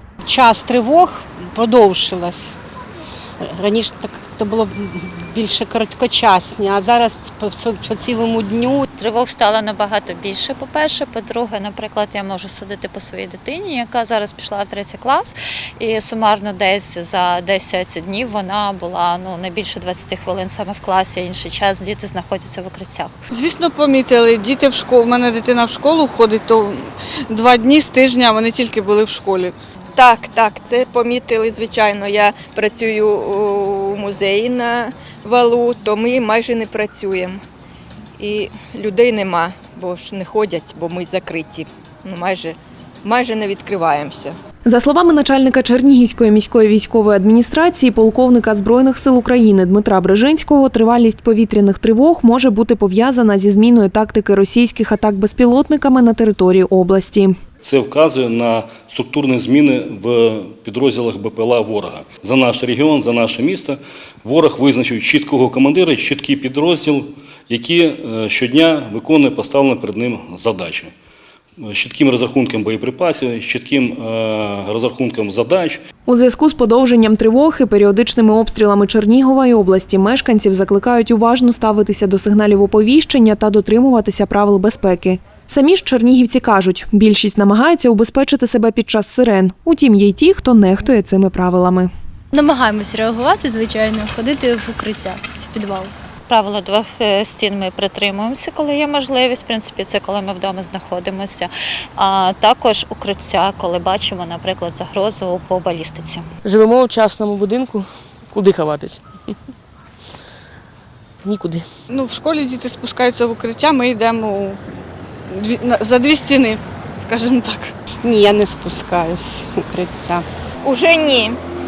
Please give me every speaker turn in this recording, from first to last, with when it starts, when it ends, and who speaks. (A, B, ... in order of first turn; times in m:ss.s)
0:00.2-0:02.6 A
0:03.4-0:08.8 A
0:08.9-0:23.2 B
0:23.3-0:29.5 C
0:30.0-0:37.4 D
0:38.2-0:44.4 D
0:44.6-0:57.4 E
0:57.6-1:10.9 F
1:11.6-1:15.8 F
1:16.1-1:31.9 E
1:32.3-1:35.9 G
1:36.3-1:46.3 B
1:46.4-1:49.0 H
1:51.2-1:51.7 H
1:51.9-1:54.6 C
1:55.3-1:57.7 C
1:58.0-2:00.3 A
2:00.6-2:01.4 D